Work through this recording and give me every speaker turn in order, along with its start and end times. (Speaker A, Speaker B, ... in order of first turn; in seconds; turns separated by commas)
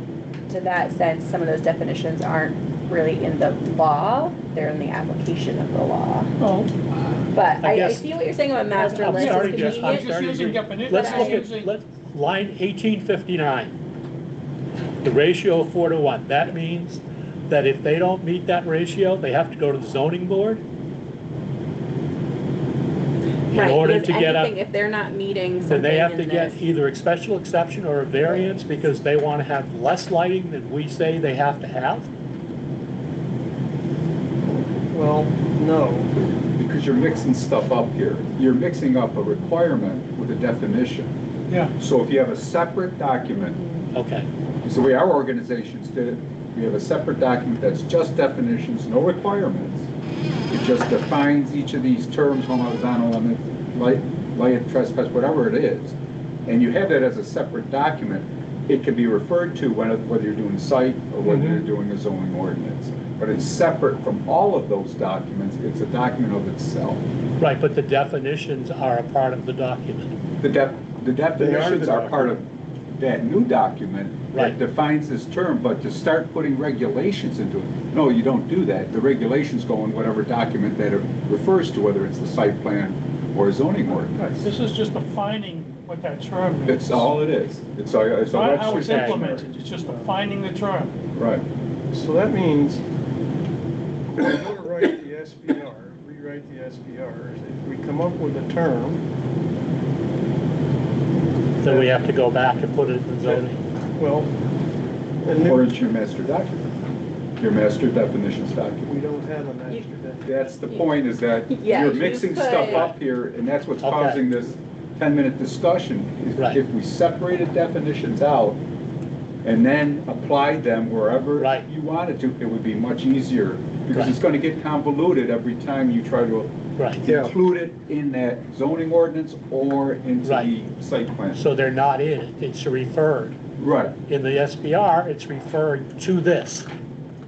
Speaker A: 0.5-6.3, Speaker B: 6.4-6.7, Speaker A: 7.3-10.2, Speaker C: 7.6-8.0, Speaker C: 8.7-13.8, Speaker B: 9.1-11.7, Speaker A: 10.9-11.4, Speaker C: 15.0-20.6, Speaker C: 23.5-24.5, Speaker A: 23.5-26.6, Speaker C: 25.7-32.1, Speaker D: 34.9-36.1, Speaker E: 36.6-41.1, Speaker E: 41.8-43.6, Speaker C: 43.9-44.3, Speaker E: 44.6-49.9, Speaker E: 50.5-67.0, Speaker D: 61.2-61.6, Speaker C: 67.4-70.1, Speaker E: 70.4-84.3, Speaker C: 71.4-72.3, Speaker C: 74.3-74.6, Speaker B: 83.9-87.1, Speaker E: 86.7-89.5, Speaker B: 88.3-90.9, Speaker C: 88.7-89.2, Speaker E: 91.1-91.4, Speaker D: 91.9-92.8, Speaker D: 94.2-99.0, Speaker C: 101.6-103.6, Speaker D: 101.6-102.0, Speaker D: 104.0-104.3, Speaker D: 105.2-105.9, Speaker E: 105.4-106.7, Speaker E: 107.4-108.9, Speaker D: 108.9-110.5, Speaker E: 110.2-118.6, Speaker A: 111.5-112.9, Speaker C: 112.7-113.0, Speaker C: 113.8-114.3, Speaker E: 119.4-131.4, Speaker C: 121.4-121.7, Speaker C: 126.8-127.0, Speaker C: 130.2-130.5, Speaker C: 131.3-133.4, Speaker E: 133.6-134.0, Speaker C: 134.1-136.7